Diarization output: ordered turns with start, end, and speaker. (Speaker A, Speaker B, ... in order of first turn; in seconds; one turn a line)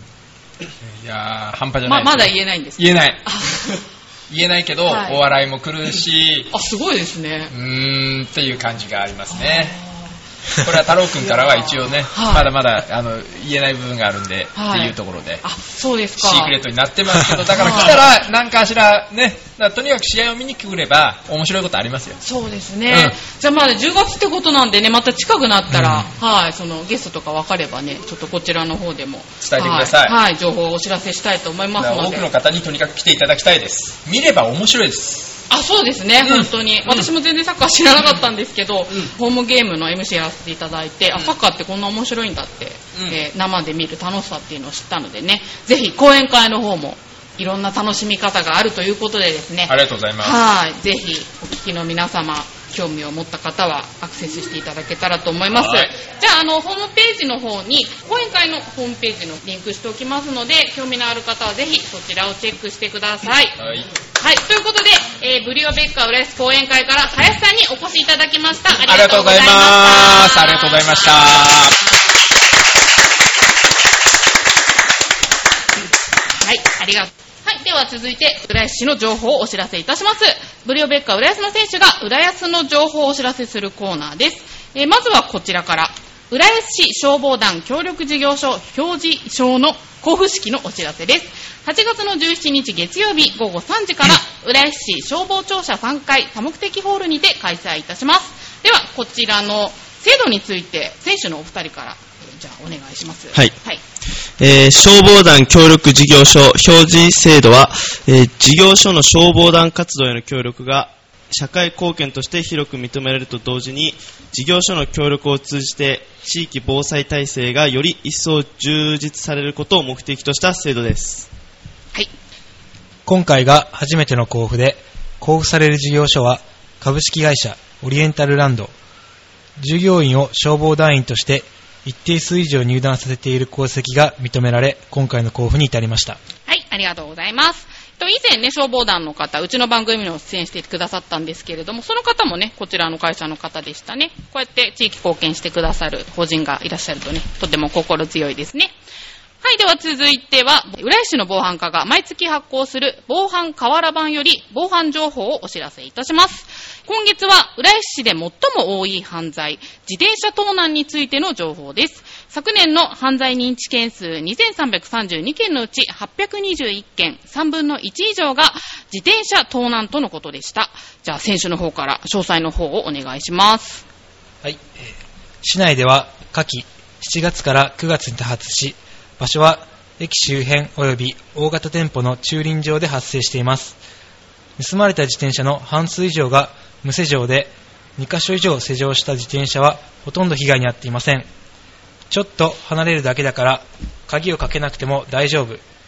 Speaker A: 0.8-3.6
Speaker B: 1.8-3.8
Speaker A: 4.3-6.5
Speaker B: 4.9-5.2
Speaker B: 6.5-7.5
Speaker A: 7.5-9.8
Speaker B: 9.3-10.2
Speaker A: 10.6-15.4
Speaker B: 11.2-12.5
Speaker B: 14.6-16.6
Speaker A: 16.2-22.2
Speaker B: 17.5-18.0
Speaker B: 22.2-32.3
Speaker A: 22.9-23.2
Speaker A: 29.4-30.2
Speaker A: 31.8-35.4
Speaker B: 35.5-63.6
Speaker A: 36.2-37.1
Speaker A: 49.7-50.4
Speaker A: 55.5-55.9
Speaker A: 63.6-63.9
Speaker B: 64.2-71.9
Speaker A: 68.8-71.8
Speaker B: 76.4-103.8
Speaker C: 104.4-121.3
Speaker D: 123.1-128.7
Speaker D: 129.6-136.2
Speaker B: 136.5-148.7
Speaker B: 149.4-173.8
Speaker D: 174.4-183.8
Speaker D: 184.6-191.3
Speaker D: 192.1-195.6